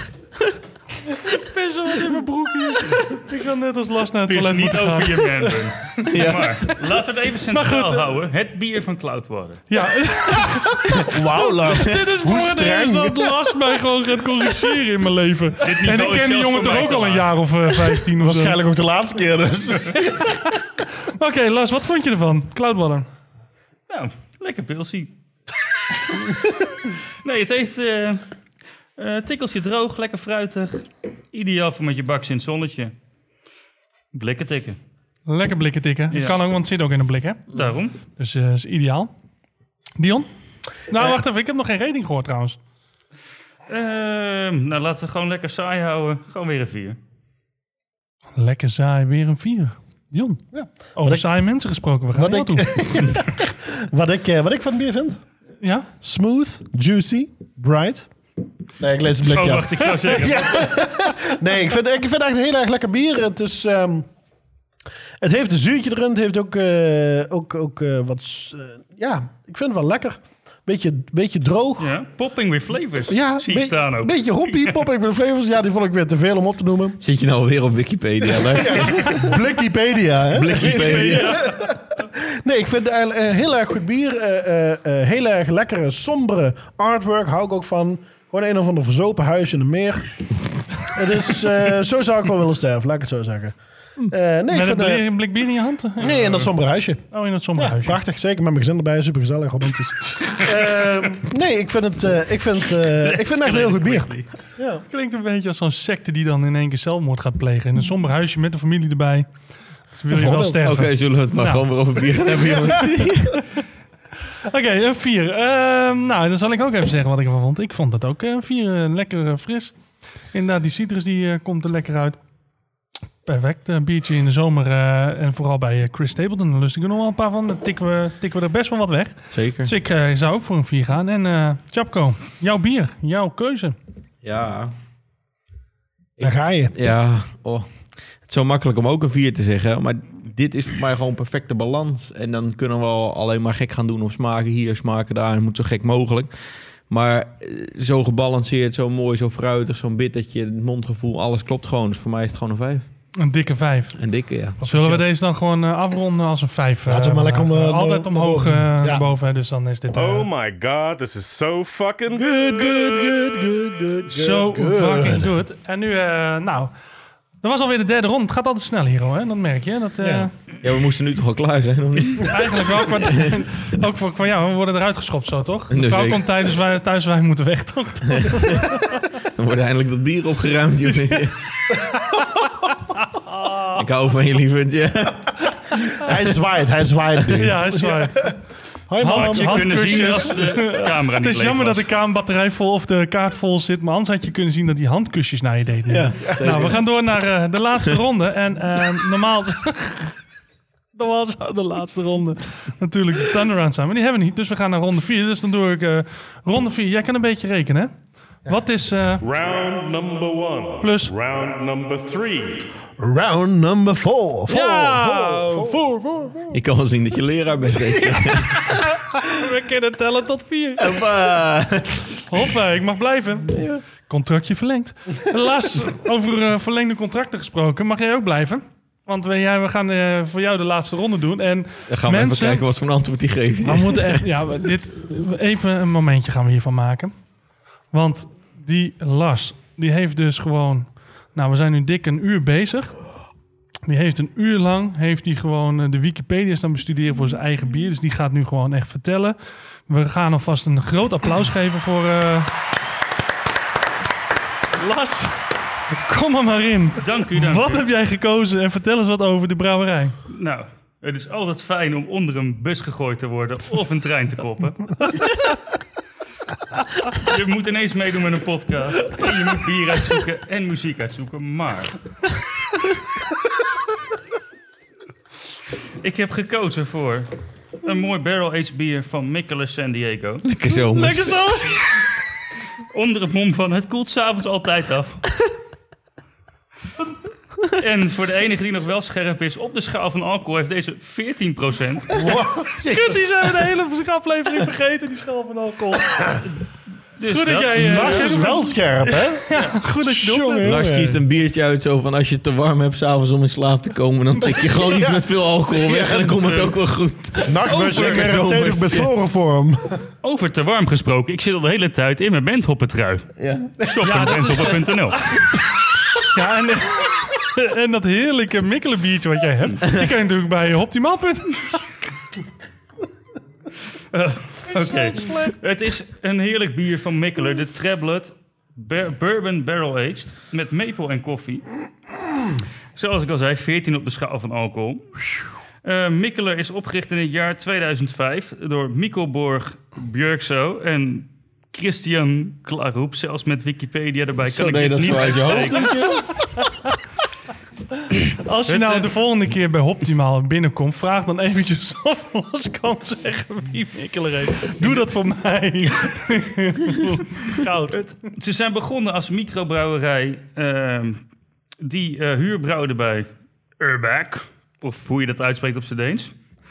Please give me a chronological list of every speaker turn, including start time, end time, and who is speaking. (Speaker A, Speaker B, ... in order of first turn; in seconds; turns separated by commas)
Speaker A: 1.3-5.3, Speaker B: 4.3-9.6, Speaker C: 6.1-6.6, Speaker A: 7.5-8.1, Speaker A: 9.7-18.6, Speaker D: 10.9-13.6, Speaker B: 15.6-17.4, Speaker D: 18.2-20.2, Speaker A: 20.2-20.5, Speaker A: 21.2-23.1, Speaker B: 23.9-25.1, Speaker B: 26.0-26.3, Speaker B: 27.2-28.2, Speaker B: 29.0-32.9, Speaker B: 34.1-34.8, Speaker A: 35.3-37.5, Speaker B: 36.1-36.4, Speaker B: 37.5-38.0, Speaker A: 38.2-39.1, Speaker A: 40.0-40.3, Speaker A: 40.9-42.6, Speaker B: 43.7-47.0, Speaker A: 48.4-50.4, Speaker D: 50.5-51.3, Speaker A: 51.0-52.7, Speaker D: 52.1-55.2, Speaker A: 55.6-55.9, Speaker D: 56.0-58.1, Speaker D: 58.8-64.1, Speaker B: 59.2-60.7, Speaker D: 65.2-71.9, Speaker B: 71.8-74.8, Speaker D: 73.1-77.0, Speaker C: 77.0-79.3, Speaker D: 78.3-90.1, Speaker C: 80.3-81.4, Speaker D: 90.9-93.6, Speaker D: 94.1-95.1, Speaker A: 94.5-96.5, Speaker D: 96.0-104.8, Speaker A: 97.1-98.0, Speaker B: 103.0-104.3, Speaker A: 104.9-109.3, Speaker A: 109.9-111.7, Speaker D: 110.1-110.8, Speaker C: 110.3-113.4, Speaker A: 114.4-119.8, Speaker A: 120.3-122.2, Speaker A: 123.3-133.8, Speaker C: 129.3-129.7, Speaker C: 134.2-134.8, Speaker C: 136.2-137.7, Speaker D: 136.2-136.7, Speaker C: 138.3-146.3, Speaker C: 146.9-152.8, Speaker A: 153.2-154.0, Speaker C: 154.0-155.1, Speaker A: 154.6-160.3, Speaker D: 156.9-159.1, Speaker E: 159.9-163.3, Speaker D: 162.2-165.4, Speaker A: 164.1-166.7, Speaker A: 167.4-170.3, Speaker D: 170.0-170.3, Speaker C: 170.6-173.4, Speaker A: 172.2-178.8, Speaker C: 175.7-176.3, Speaker C: 178.1-178.8, Speaker C: 179.4-181.3, Speaker A: 183.2-183.8, Speaker C: 183.8-185.8, Speaker D: 186.0-188.3, Speaker A: 187.3-188.3, Speaker D: 188.9-190.3, Speaker A: 189.0-200.1, Speaker B: 189.1-191.9, Speaker C: 195.9-196.9, Speaker D: 196.2-196.7, Speaker A: 200.9-207.9, Speaker A: 208.5-209.2, Speaker E: 209.2-212.7, Speaker A: 210.8-211.1, Speaker D: 213.0-215.8, Speaker A: 214.5-216.5, Speaker C: 216.5-218.8, Speaker A: 218.1-221.0, Speaker C: 220.8-222.2, Speaker A: 222.3-232.6, Speaker C: 223.5-223.8, Speaker C: 231.9-234.2, Speaker A: 233.7-237.1, Speaker A: 237.9-243.0, Speaker A: 243.9-249.4, Speaker A: 249.9-252.5, Speaker A: 254.8-255.4, Speaker A: 255.9-260.2, Speaker B: 257.0-257.9, Speaker B: 260.3-265.0, Speaker B: 267.2-271.9, Speaker B: 276.0-277.3, Speaker B: 277.8-280.4, Speaker C: 280.4-281.5, Speaker A: 280.8-281.8, Speaker B: 282.9-285.2, Speaker B: 287.8-292.1, Speaker D: 292.1-293.6, Speaker A: 292.9-296.4, Speaker B: 297.2-298.4, Speaker A: 297.3-300.8, Speaker D: 297.8-301.2, Speaker C: 300.6-309.1, Speaker D: 304.6-306.6, Speaker B: 306.4-306.7, Speaker B: 307.4-308.4, Speaker D: 307.4-310.0, Speaker B: 310.2-313.3, Speaker C: 313.4-313.7, Speaker B: 313.8-315.2, Speaker A: 314.0-315.4, Speaker A: 316.3-321.8, Speaker B: 324.1-331.6, Speaker A: 324.9-325.5, Speaker B: 333.0-335.1, Speaker B: 335.8-346.0, Speaker C: 344.5-346.5, Speaker A: 348.4-358.2, Speaker B: 348.7-349.1, Speaker B: 358.3-361.2, Speaker B: 361.8-363.3, Speaker B: 363.8-366.3